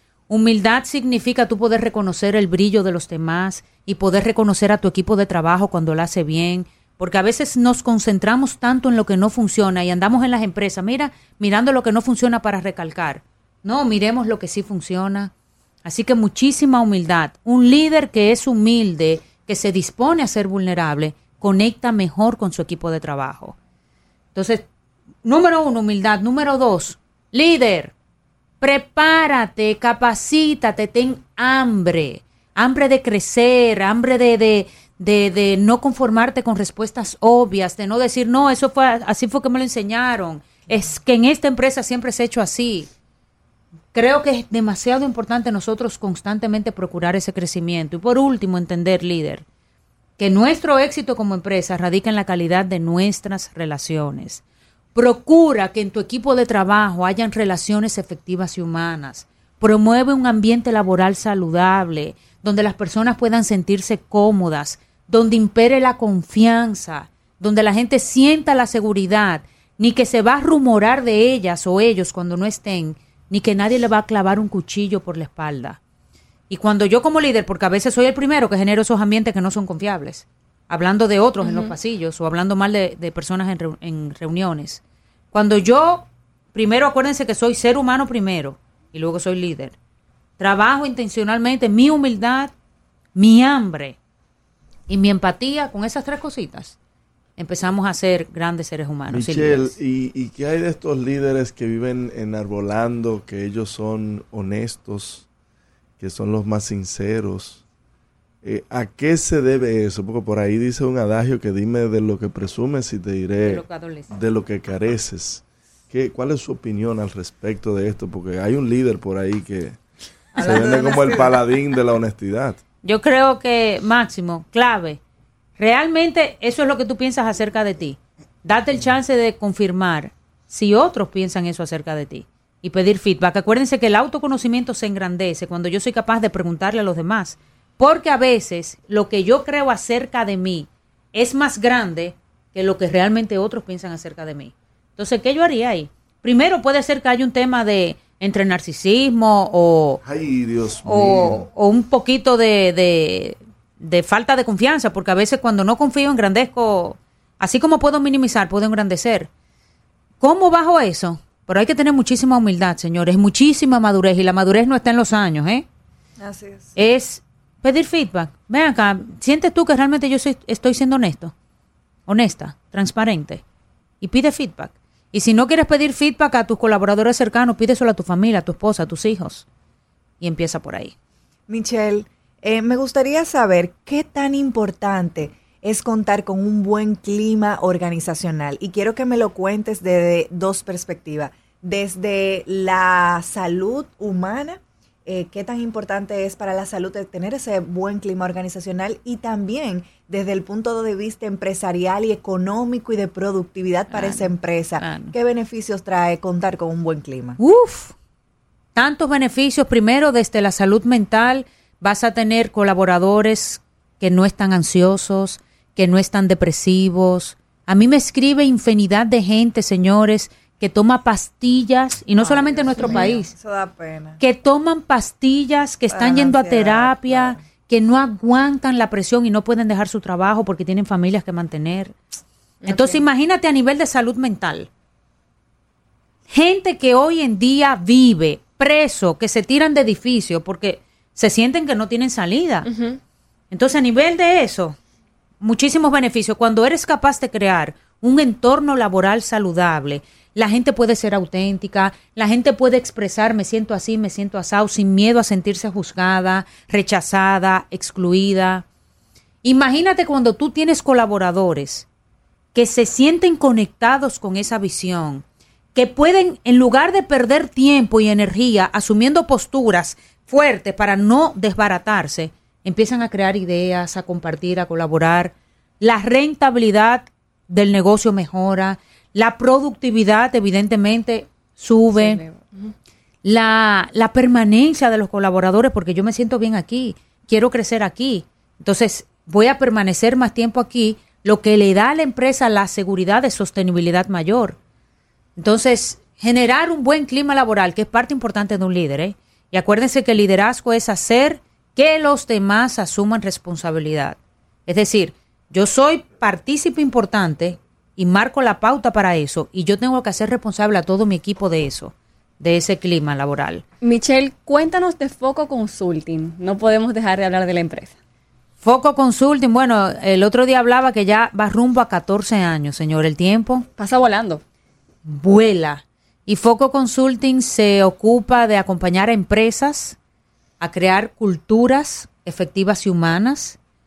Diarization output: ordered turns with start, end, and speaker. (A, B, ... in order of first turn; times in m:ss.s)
0:00.3-0:15.3 A
0:15.8-0:23.6 A
0:24.4-0:24.7 A
0:25.2-0:27.9 A
0:28.6-0:42.9 A
0:43.9-0:49.4 A
0:50.2-0:54.4 A
0:55.0-1:15.8 A
1:16.5-1:24.8 A
1:21.4-1:21.7 B
1:25.3-1:29.8 A
1:30.4-1:32.5 A
1:33.2-1:34.0 A
1:34.9-1:36.8 A
1:37.4-1:39.8 A
1:39.1-1:45.3 C
1:46.0-1:47.6 C
1:48.4-1:59.8 C
1:53.4-1:54.1 A
2:00.4-2:01.0 A
2:00.4-2:02.6 C
2:00.4-2:01.4 D
2:02.8-2:05.0 A
2:05.6-2:30.0 A
2:30.0-2:31.5 C
2:30.8-2:39.3 A
2:40.2-2:45.7 A
2:46.2-2:46.8 D
2:46.8-2:51.3 A
2:52.1-2:53.4 A
2:54.0-2:59.5 A
3:00.2-3:00.9 A
3:01.5-3:27.4 D
3:23.9-3:25.1 A
3:27.4-3:28.0 A
3:28.8-3:43.3 A
3:42.2-3:44.2 D
3:42.8-3:43.1 B
3:44.2-3:52.0 A
3:45.9-3:47.4 D
3:52.6-3:53.0 B
3:52.6-3:54.7 A
3:56.3-4:02.7 A
4:02.6-4:03.0 B
4:03.5-4:04.8 A
4:05.4-4:18.6 A
4:19.4-4:21.9 A
4:22.5-4:25.2 A
4:25.8-4:42.2 A
4:41.9-4:42.7 B
4:43.2-4:54.6 A
4:55.4-5:13.6 A
5:13.8-5:18.0 B
5:18.6-5:23.7 A
5:23.8-5:24.4 B
5:25.0-5:30.0 A
5:30.6-5:33.6 A